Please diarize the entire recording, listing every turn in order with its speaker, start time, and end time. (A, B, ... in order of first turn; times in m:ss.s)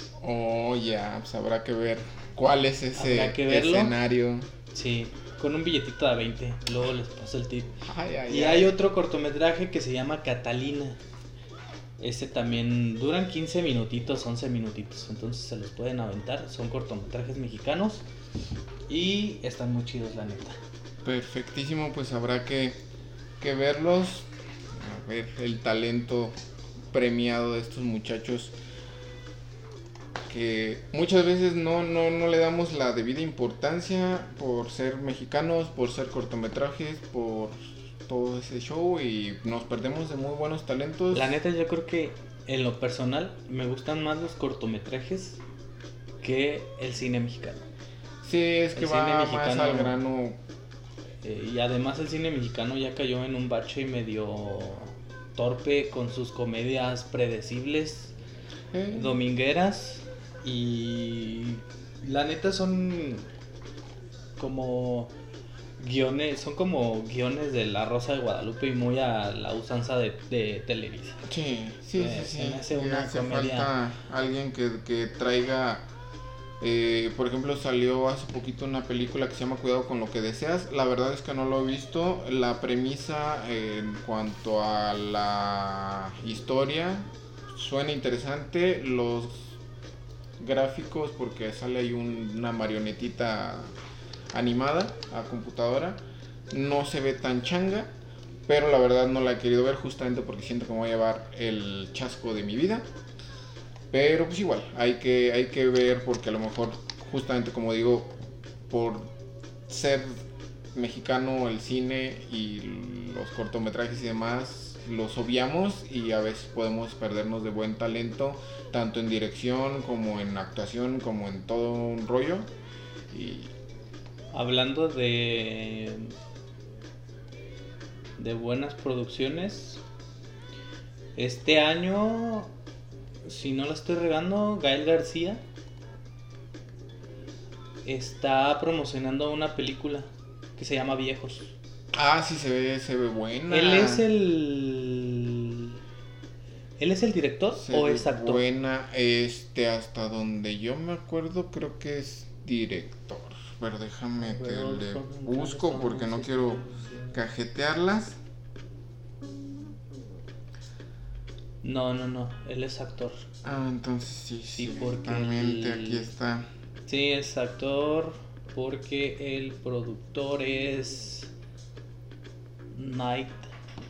0:00.2-0:04.5 A
0:02.9-0:03.9 B
0:04.7-0:07.8 B
0:07.8-0:08.7 A
0:08.3-0:11.0 B
0:12.0-0:18.0 B
0:18.9-0:20.6 B
0:21.0-0:22.8 A
0:23.4-0:26.3 A
0:26.9-0:28.5 A
0:30.3-0:41.3 A
0:41.1-0:45.4 B
0:46.2-0:47.6 B
0:48.2-0:50.4 A
0:48.8-0:50.0 B
0:51.2-0:58.1 B
0:58.7-0:59.1 A
0:58.9-1:03.3 B
1:04.4-1:05.1 B
1:05.8-1:11.2 B
1:11.2-1:15.8 A
1:12.0-1:13.7 B
1:16.6-1:29.6 A
1:30.4-1:33.7 A
1:34.3-1:37.9 A
1:38.5-1:42.8 A
1:43.9-1:48.1 A
1:48.7-1:49.1 A
1:49.7-1:50.1 A
1:50.7-2:02.5 A
2:03.1-2:03.5 A
2:04.3-2:06.1 B
2:08.2-2:09.8 B
2:11.2-2:12.5 B
2:13.2-2:15.4 B
2:17.8-2:21.5 B
2:21.9-2:24.1 A
2:23.5-2:25.8 B
2:26.8-2:28.4 B
2:27.6-2:38.2 A
2:34.2-2:37.2 B
2:41.6-2:43.2 B
2:43.4-2:46.5 A
2:44.6-2:46.1 B
2:46.9-2:51.3 B
2:52.7-2:53.5 B